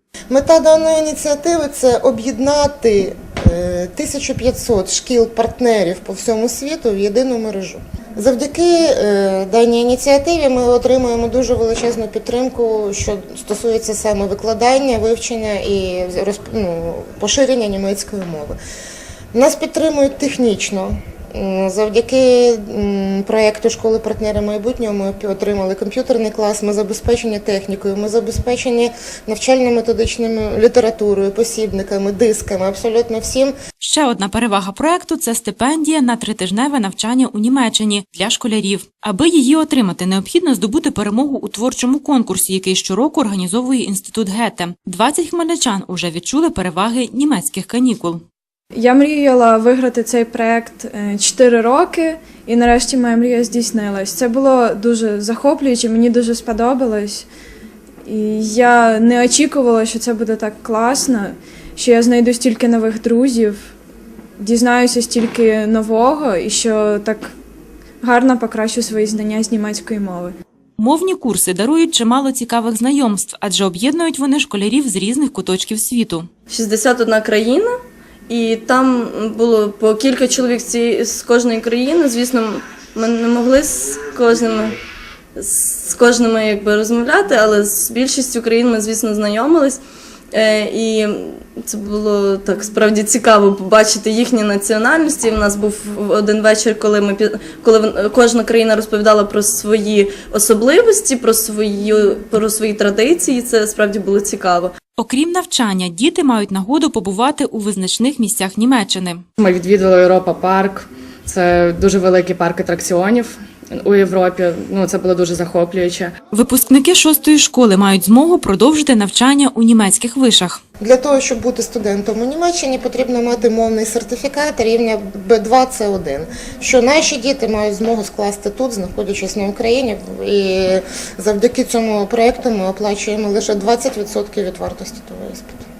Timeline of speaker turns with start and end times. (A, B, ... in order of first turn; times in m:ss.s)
0:00.3-0:18.6 A
0:19.3-0:33.5 A
0:33.8-0:48.2 B
0:48.7-0:57.3 C
0:58.0-1:03.7 C
1:04.4-1:07.3 C
1:08.0-1:10.3 C
1:10.8-1:16.3 B
1:16.5-1:17.7 D
1:18.3-1:24.8 D
1:25.4-1:29.8 D
1:30.3-1:44.7 D
1:45.0-1:49.2 B
1:49.4-1:56.1 E
1:56.3-2:00.6 B
2:00.8-2:15.6 A